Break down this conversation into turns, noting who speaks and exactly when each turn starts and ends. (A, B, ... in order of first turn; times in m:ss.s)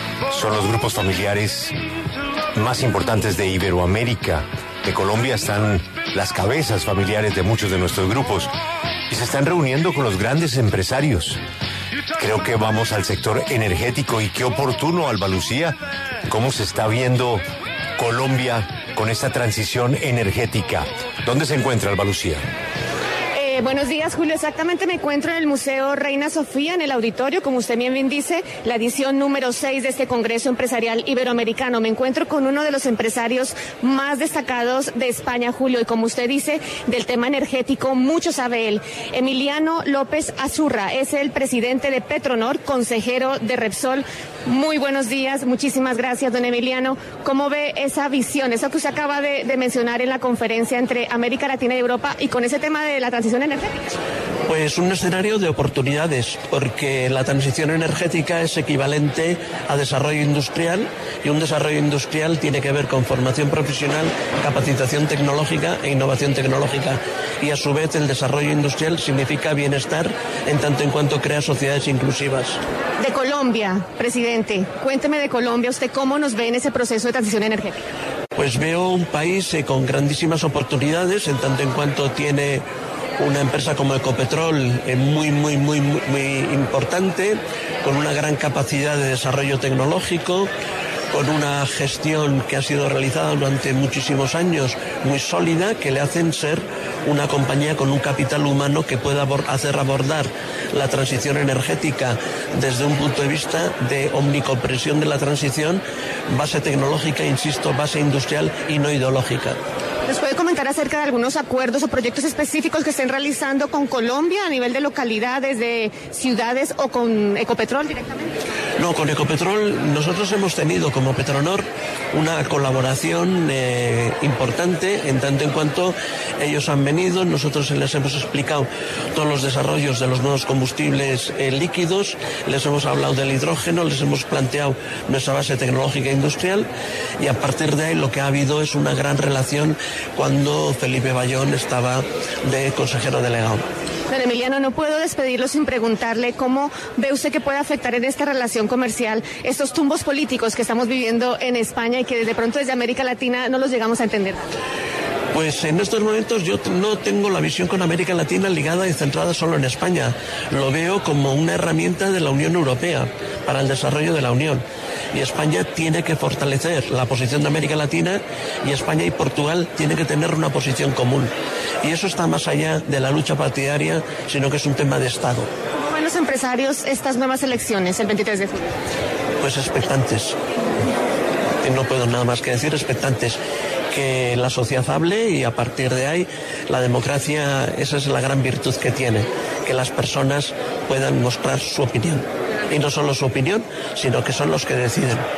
0:00.3-0:01.7 A
0:02.6-0:08.5 A
0:09.1-0:11.4 A
0:12.2-0:15.7 A
0:16.3-0:17.4 A
0:18.0-0:22.4 A
0:23.3-0:53.9 B
0:54.4-1:12.6 C
1:13.0-1:17.8 B
1:18.4-1:22.6 C
1:23.2-1:30.5 C
1:31.1-1:49.6 C
1:50.1-1:58.4 B
1:58.8-2:16.7 C
2:17.2-2:23.6 C
2:24.1-2:34.5 B
2:35.3-2:51.3 C
2:51.8-2:55.5 C
2:55.8-2:58.7 B
2:59.4-3:00.4 C
3:01.6-3:03.4 C
3:03.9-3:15.2 C